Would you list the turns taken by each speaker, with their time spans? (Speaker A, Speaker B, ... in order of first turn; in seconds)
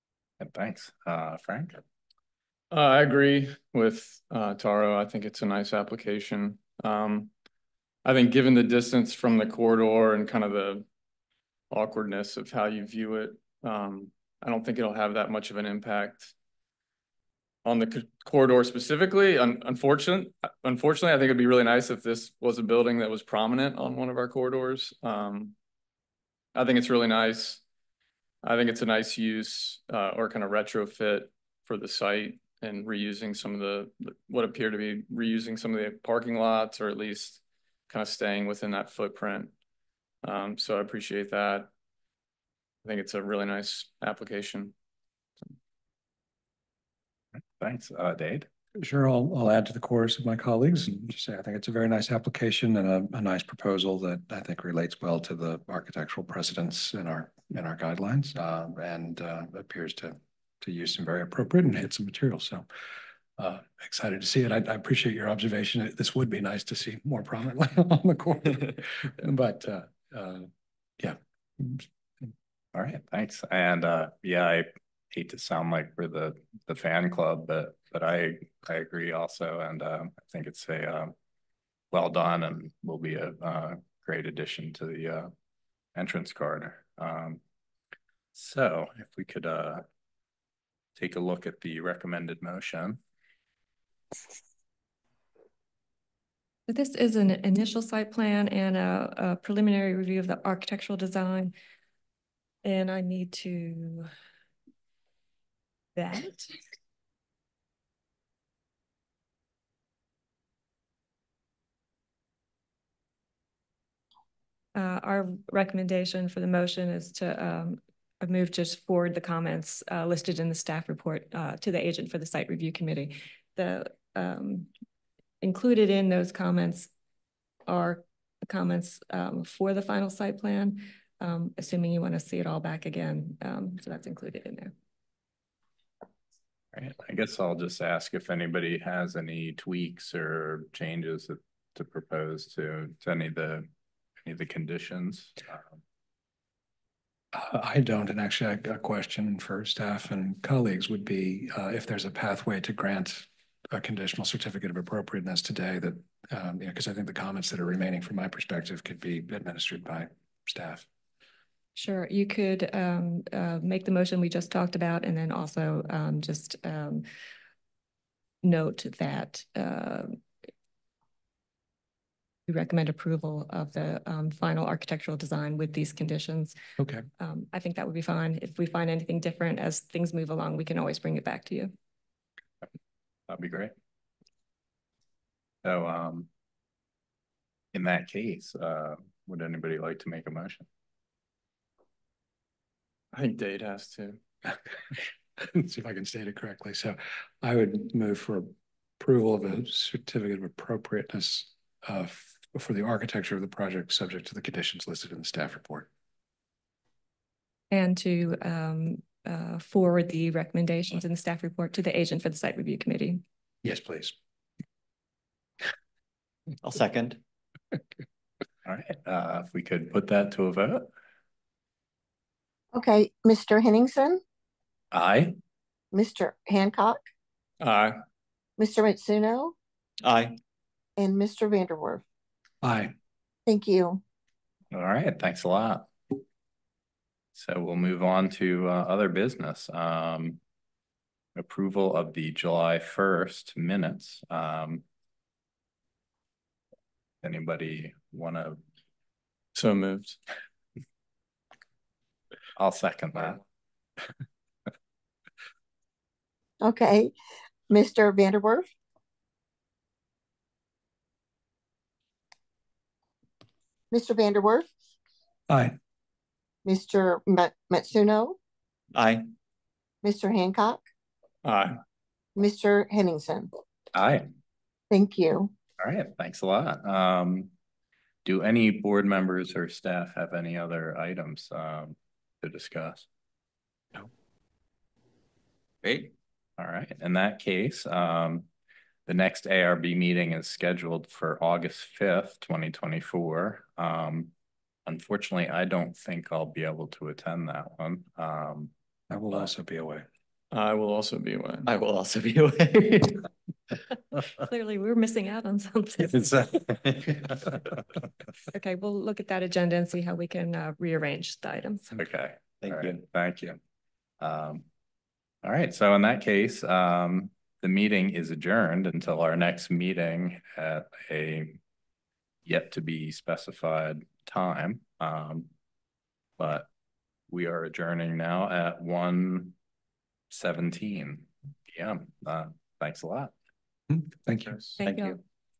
Speaker A: 0.4-1.8, 47.6-48.5, 72.7-81.1, 81.9-85.3, 85.9-87.4, 88.3-89.8, 91.0-93.0, 136.7-143.7, 144.2-145.8, 183.3-183.7, 185.6-186.3, 187.7-190.7, 218.6-220.9, 224.9-225.3, 234.7-235.9, 237.3-240.4, 241.3-244.8, 247.2-248.6, 252.6-253.4, 273.9-274.3, 275.8-277.5, 278.2-283.1, 286.6-288.5, 289.1-294.3, 294.9-298.7, 312.0-313.6, 314.2-314.6, 315.4-321.6, 322.4-325.5, 326.4-326.7, 327.3-329.5, 330.3-333.3
Speaker B: 2.7-7.3, 8.0-10.8, 11.7-16.3, 17.6-25.5, 26.5-27.6, 28.4-39.5, 40.2-41.7, 42.8-44.7, 193.1-194.2, 227.6-228.0, 249.5-250.2, 271.4-271.8, 300.5-301.7, 334.5-334.8
Speaker C: 48.8-62.6, 63.4-72.3, 147.3-160.9, 176.8-177.1, 194.9-205.9, 213.6-214.1, 232.6-232.9, 265.5-265.8, 299.1-300.1, 333.9-334.6
Speaker D: 96.7-101.5, 102.6-104.1, 105.9-106.5, 114.7-124.7, 125.4-126.9, 127.7-134.7, 161.7-167.0, 168.4-170.2, 172.5-176.5, 177.2-181.7, 207.7-213.2, 304.4-306.4, 308.5-312.0, 334.8-335.2
Speaker E: 216.6-217.2, 230.0-230.3, 268.9-269.2, 285.8-286.1, 301.7-303.3, 312.6-313.0
Speaker F: 222.7-224.2, 225.9-227.0, 228.6-229.5, 231.0-232.0, 233.4-234.0, 256.6-257.1, 257.7-258.6, 263.9-264.6, 266.6-268.4, 270.0-270.8, 272.4-273.5, 274.9-275.5